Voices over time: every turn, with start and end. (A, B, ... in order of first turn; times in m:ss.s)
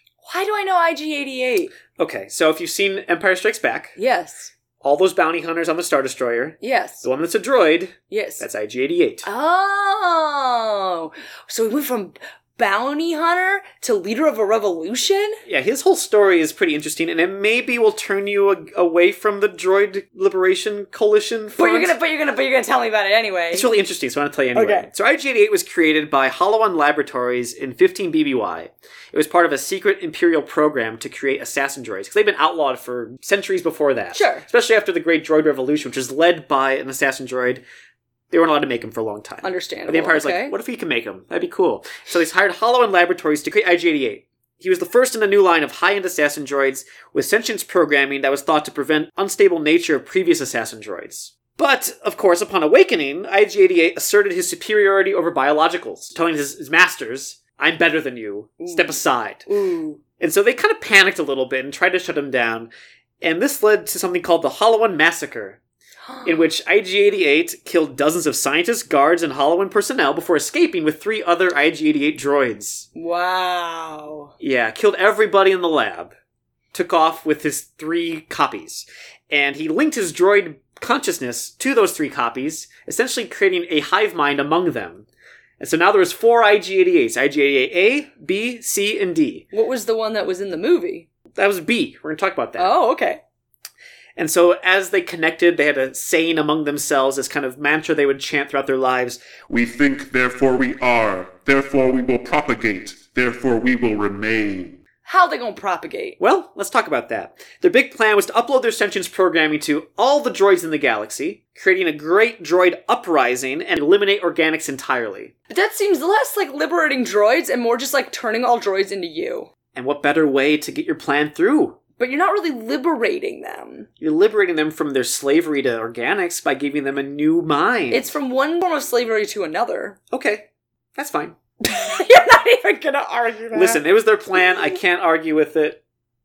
0:00.2-0:01.7 A
0:02.0-0:04.0 B
0:04.0-0:04.5 A
0:04.8-0:09.3 B
0:06.6-0:07.1 A
0:08.1-0:08.5 A
0:09.2-0:15.4 A
0:15.5-0:22.0 B
0:21.6-0:23.7 A
0:23.5-0:37.6 B
0:24.6-0:24.9 A
0:34.1-0:34.4 A
0:38.3-0:59.5 B
0:39.4-0:40.6 A
0:58.6-1:00.0 A
1:00.2-1:02.7 B
1:03.2-1:05.6 B
1:06.1-1:06.5 A
1:06.2-1:12.9 B
1:13.0-1:14.3 A
1:14.4-1:16.1 B
1:16.7-1:25.1 B
1:25.6-1:29.5 B
1:29.5-1:31.1 A
1:31.4-1:32.7 B
1:32.6-1:33.2 A
1:34.2-1:39.3 B
1:39.5-1:44.8 C
1:45.0-1:46.2 A
1:46.2-1:55.3 B
1:55.5-1:59.5 A
1:59.7-2:01.8 B
2:02.0-2:03.9 A
2:04.0-2:08.1 B
2:07.9-2:10.0 A
2:10.1-2:11.4 B
2:11.6-2:13.8 A
2:13.5-2:15.8 B